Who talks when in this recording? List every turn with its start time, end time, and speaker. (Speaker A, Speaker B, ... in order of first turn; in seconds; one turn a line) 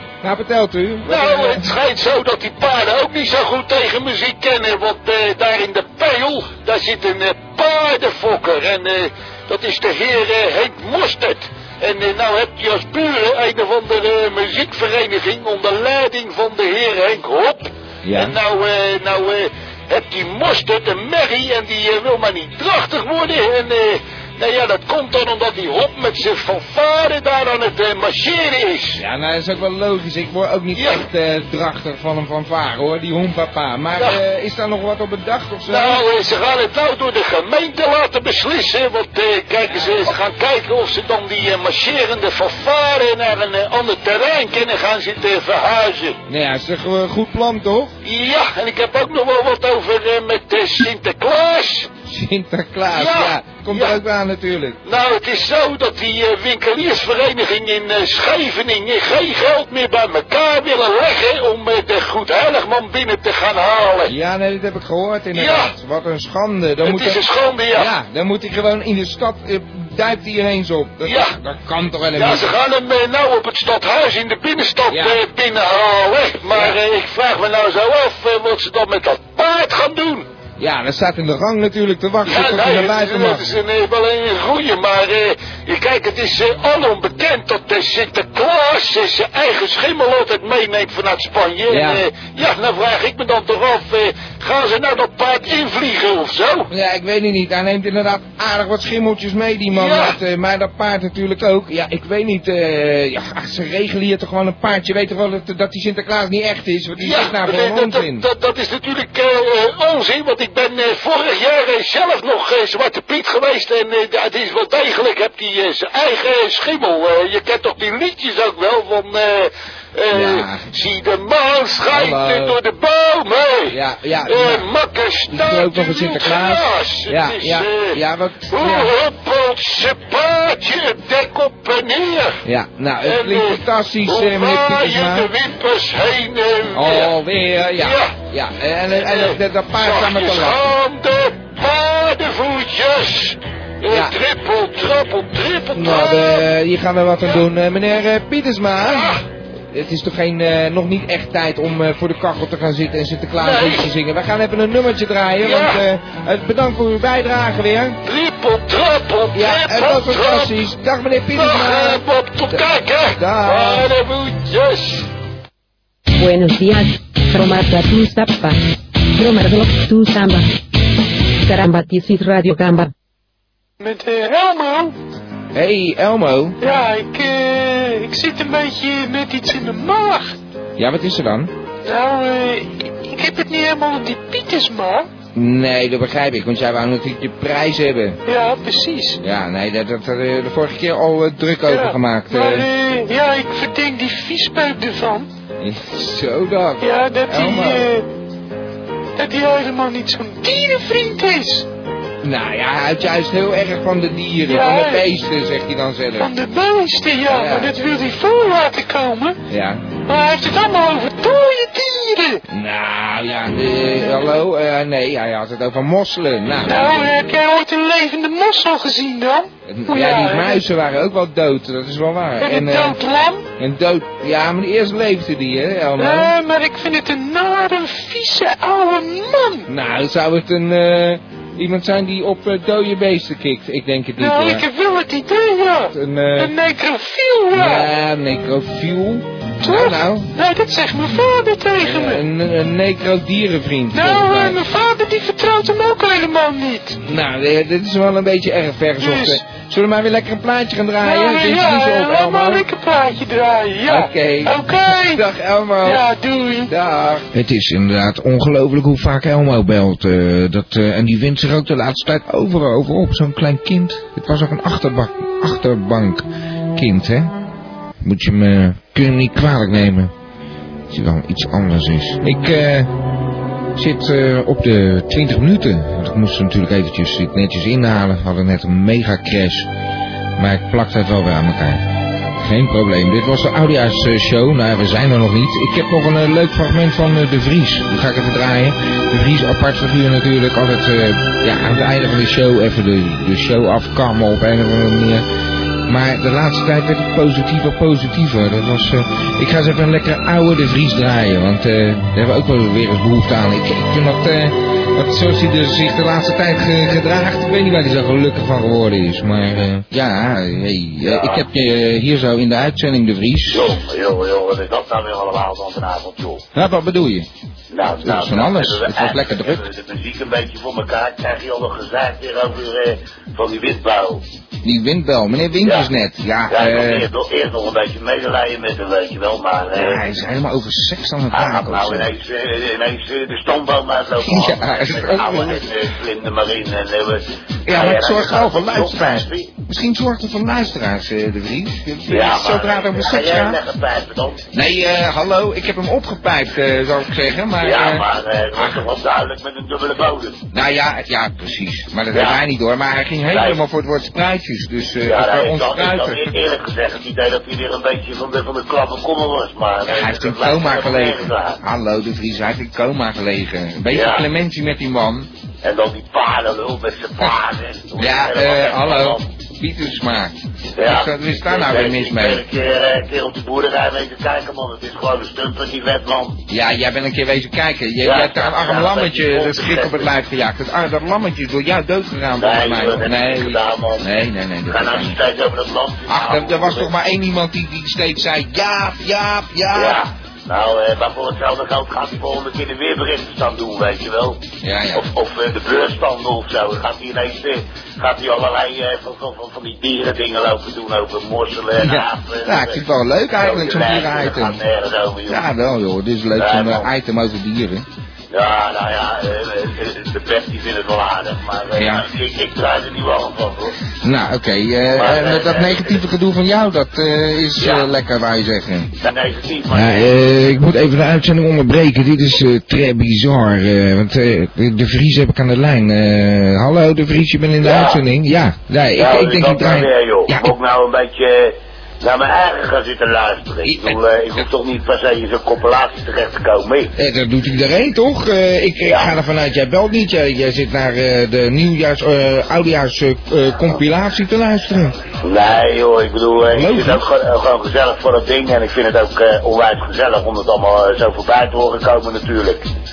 Speaker A: 0.2-1.7
Speaker B: 1.1-29.0
Speaker A: 18.0-18.4
Speaker A: 29.0-36.0
Speaker B: 30.7-31.0
Speaker B: 35.7-46.2
Speaker A: 46.3-47.9
Speaker B: 48.0-51.9
Speaker A: 52.0-54.8
Speaker B: 52.9-54.0
Speaker B: 54.8-64.1
Speaker A: 64.1-72.5
Speaker B: 65.3-65.7
Speaker B: 66.8-67.9
Speaker B: 71.0-71.3
Speaker B: 72.1-80.3
Speaker A: 74.9-75.2
Speaker A: 76.5-76.8
Speaker A: 80.6-83.5
Speaker B: 82.2-96.7
Speaker A: 91.7-92.0
Speaker A: 96.7-108.2
Speaker B: 99.7-100.2
Speaker B: 107.0-123.7
Speaker A: 120.1-120.7
Speaker A: 121.9-122.6
Speaker A: 123.7-124.7
Speaker B: 124.2-132.4
Speaker A: 125.3-128.9
Speaker A: 132.4-135.3
Speaker B: 133.0-137.1
Speaker A: 136.7-140.7
Speaker B: 137.8-138.2
Speaker B: 138.9-146.4
Speaker A: 143.9-144.1
Speaker A: 145.7-149.2
Speaker B: 148.8-149.2
Speaker A: 149.7-158.0
Speaker B: 153.4-153.9
Speaker B: 155.4-155.8
Speaker B: 158.0-160.5
Speaker A: 159.3-163.9
Speaker B: 161.3-165.0
Speaker C: 166.2-168.6
Speaker C: 169.2-170.5
Speaker C: 171.4-172.9
Speaker D: 173.8-174.9
Speaker A: 175.5-176.6
Speaker D: 176.6-180.3
Speaker A: 180.8-181.5
Speaker D: 181.8-185.1
Speaker A: 185.3-188.2
Speaker D: 188.2-189.2
Speaker A: 189.2-192.7
Speaker D: 191.7-195.3
Speaker A: 195.6-197.9
Speaker D: 196.8-198.1
Speaker D: 199.2-201.7
Speaker A: 202.2-206.3
Speaker D: 204.4-205.1
Speaker D: 206.2-209.4
Speaker A: 207.3-207.8
Speaker A: 209.5-209.8
Speaker D: 210.1-212.4
Speaker A: 212.5-217.1
Speaker D: 216.7-220.6
Speaker A: 219.7-223.0
Speaker D: 222.4-223.5
Speaker A: 223.6-226.3
Speaker D: 226.0-229.7
Speaker A: 229.7-234.6
Speaker D: 234.2-237.9
Speaker A: 235.9-236.5
Speaker A: 237.5-240.3
Speaker D: 239.6-242.2
Speaker A: 241.8-244.6
Speaker D: 243.9-247.0
Speaker A: 247.0-252.7
Speaker D: 249.0-249.4
Speaker D: 251.0-255.2
Speaker A: 253.8-256.0
Speaker D: 255.8-256.7
Speaker A: 256.7-267.3
Speaker A: 268.0-270.1
Speaker A: 270.9-272.9
Speaker A: 273.8-279.7
Speaker A: 280.4-281.8
Speaker A: 282.4-295.2
Speaker A: 295.9-313.7
Speaker E: 311.0-311.4
Speaker E: 313.5-316.4
Speaker A: 316.5-317.3
Speaker E: 317.7-324.2
Speaker A: 318.0-319.6
Speaker A: 324.6-327.1
Speaker E: 325.6-325.9
Speaker E: 326.5-330.0
Speaker A: 329.7-332.1
Speaker E: 331.3-339.5
Speaker A: 334.2-335.6
Speaker A: 337.6-343.6
Speaker E: 342.1-344.4
Speaker A: 344.5-348.8
Speaker E: 347.6-350.4
Speaker A: 350.5-356.3
Speaker E: 352.1-352.4
Speaker E: 353.3-353.6
Speaker E: 355.0-361.6
Speaker A: 359.8-365.3
Speaker E: 363.9-364.2
Speaker E: 365.6-369.2
Speaker A: 368.0-372.4
Speaker E: 370.8-376.4
Speaker A: 376.5-385.2
Speaker E: 378.0-380.1
Speaker E: 382.4-384.0
Speaker E: 384.7-386.9
Speaker A: 386.1-390.0
Speaker E: 389.7-394.4
Speaker A: 394.6-395.0
Speaker E: 394.9-402.8
Speaker A: 401.8-404.6
Speaker E: 403.4-405.4
Speaker A: 405.3-407.8
Speaker E: 406.4-406.9
Speaker E: 408.3-413.7
Speaker A: 411.8-412.0
Speaker A: 414.0-418.9
Speaker E: 414.9-416.0
Speaker E: 417.6-417.9
Speaker E: 419.0-420.2
Speaker A: 419.7-430.5
Speaker E: 427.6-428.0
Speaker E: 428.9-436.9
Speaker A: 433.6-434.4
Speaker A: 437.0-444.9
Speaker E: 438.8-439.1
Speaker E: 445.2-452.6
Speaker A: 446.5-447.0